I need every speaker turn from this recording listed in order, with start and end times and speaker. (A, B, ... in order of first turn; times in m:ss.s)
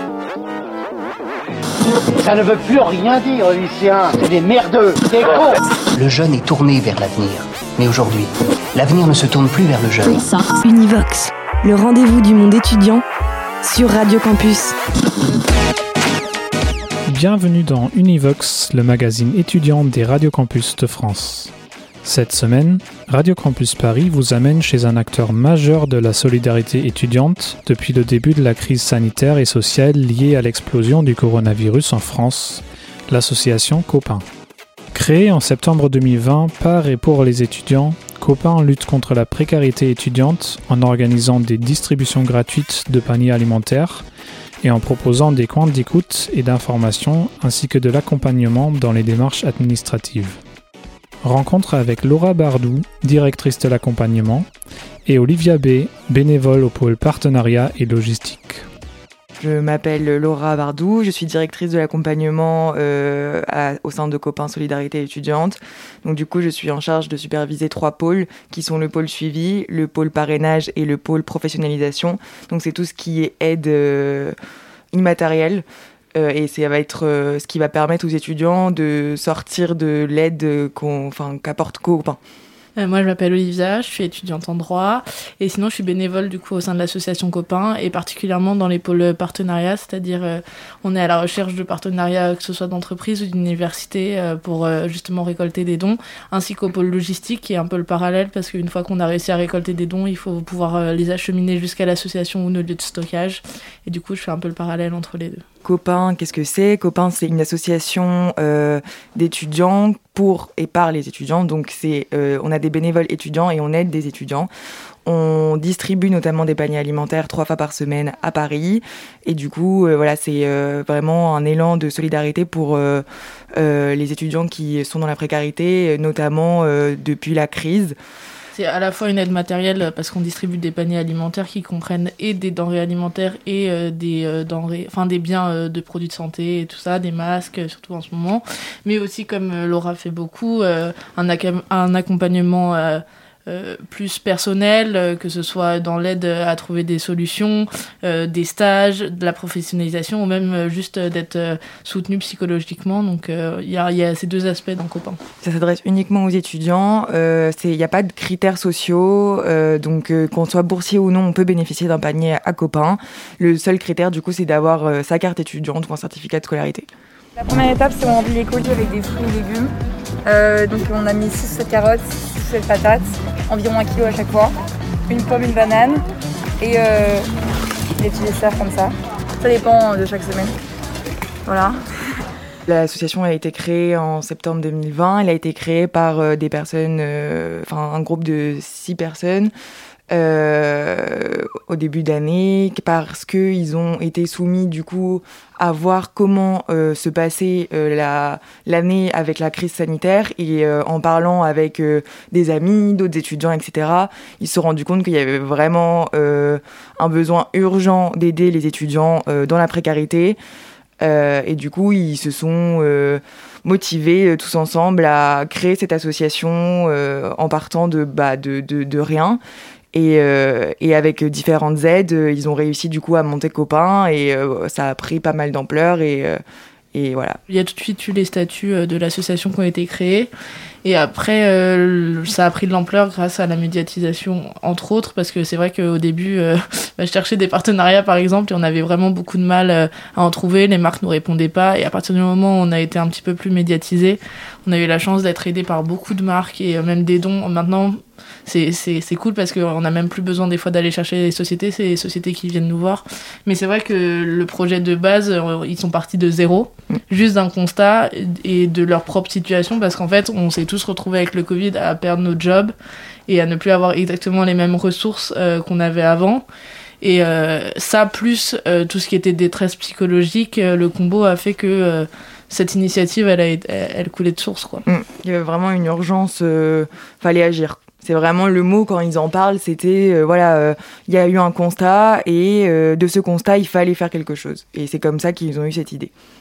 0:02.2-0:05.6 A
0:06.0-0:10.3 B
0:10.3-0:13.0 C
0:13.6-0:14.7 C
0:17.1-0:21.5 D
0:22.0-0:34.2 D
0:34.9-0:44.0 D
0:44.6-0:50.4 D
0:51.2-0:54.5 D
0:55.0-0:58.6 D
0:59.4-1:14.4 E
1:14.9-1:15.6 E
1:16.2-1:22.2 E
1:22.8-1:45.4 F
1:45.6-1:54.5 E
1:55.1-2:03.0 E
2:03.6-2:08.0 E
2:08.5-2:35.2 F
2:35.4-2:46.9 E
2:47.4-2:49.7 G
2:50.2-2:54.5 G
2:55.1-2:56.0 G
2:56.6-2:57.2 G
2:58.0-3:00.6 G
3:01.5-3:01.8 G
3:02.7-3:09.5 E
3:10.1-3:30.4 E
3:31.0-3:39.4 E
3:39.9-3:46.4 E
3:46.9-3:47.4 E
3:47.5-3:50.3 F
3:50.8-4:22.7 F
4:23.3-4:26.4 F
4:27.0-4:34.8 F
4:34.8-4:46.1 E